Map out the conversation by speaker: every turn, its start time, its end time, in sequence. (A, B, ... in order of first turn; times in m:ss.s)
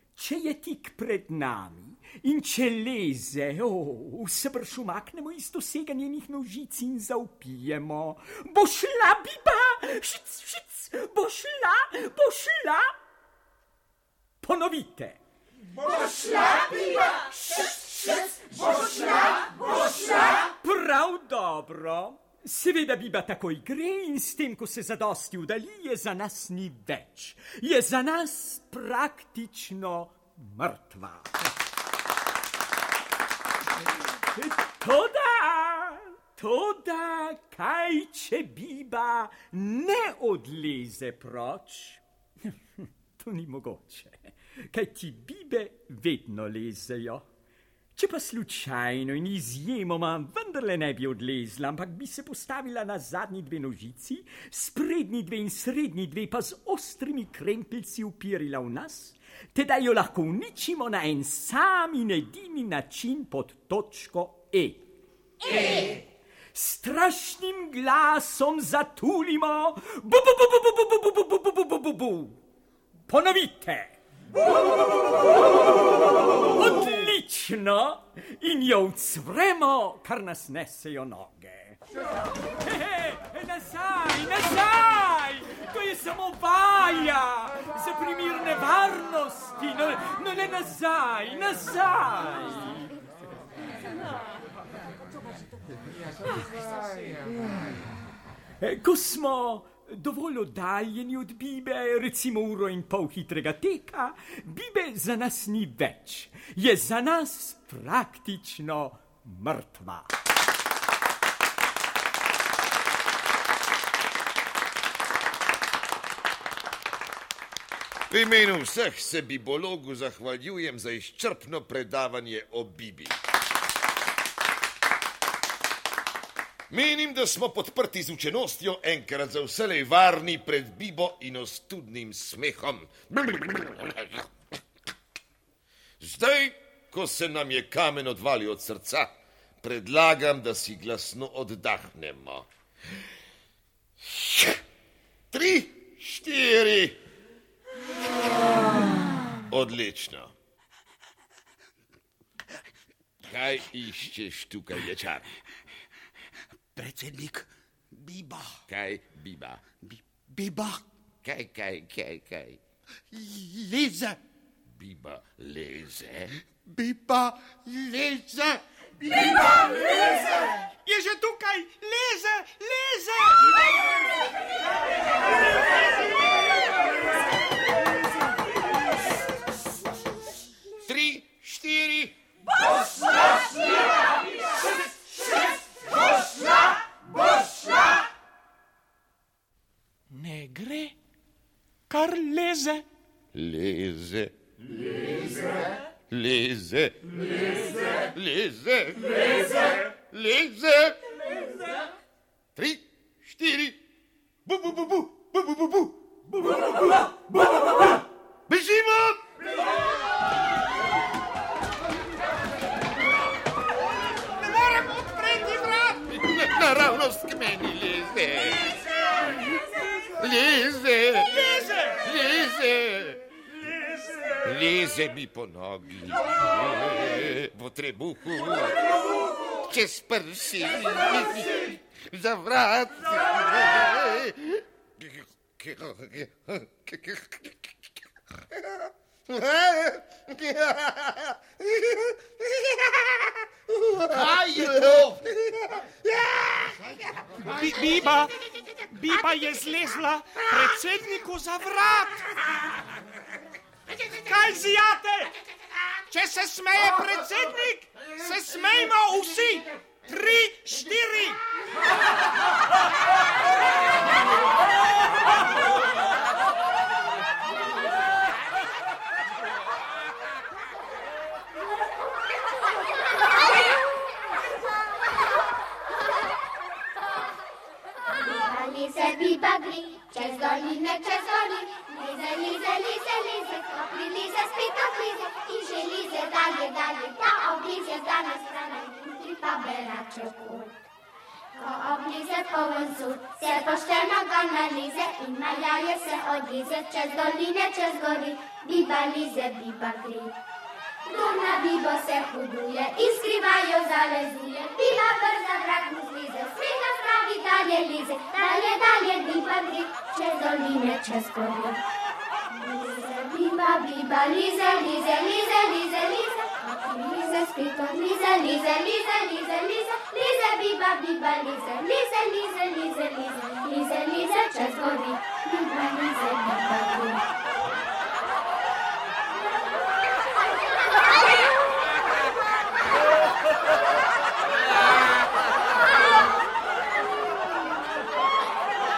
0:00.2-0:12.9 A
0:14.4-0:15.2 A
0:17.5-0:19.4 A
0:20.4-0:31.4 A
0:34.3-0:47.3 A
0:48.0-1:04.8 A
1:06.5-1:12.4 A
1:13.1-1:14.0 A
1:15.0-1:21.8 A
1:22.6-1:32.9 A
1:38.6-1:50.1 A
1:58.1-2:03.2 B
2:06.7-2:14.3 B
2:16.0-2:19.1 B
2:19.6-2:22.5 B
2:24.0-2:24.6 B
2:25.3-2:27.0 B
2:29.5-2:30.3 B
2:33.2-2:35.3 B
2:36.7-2:38.6 C
2:38.7-2:39.6 B
2:39.8-2:40.8 C
2:41.2-2:42.6 B
2:43.1-2:44.2 C
2:44.7-2:46.3 B
2:46.6-2:48.6 C
2:50.8-2:53.6 D
3:00.8-3:02.1 B
3:10.1-3:10.9 D
3:11.9-3:12.8 D
3:13.3-3:14.3 B
3:16.1-3:21.2 B
3:22.6-3:23.8 B
3:24.4-3:27.0 B
3:28.5-3:29.3 B
3:34.2-3:36.0 D
3:36.1-3:38.7 B
3:40.1-3:43.2 B
3:41.2-3:42.0 D
3:44.4-3:57.7 B
3:59.3-4:06.8 B
4:07.4-4:12.5 D
4:14.0-4:15.3 D
4:16.1-4:21.4 D
4:38.1-4:50.8 E
4:51.6-5:00.4 E
5:01.0-5:11.8 E
5:12.5-5:27.2 E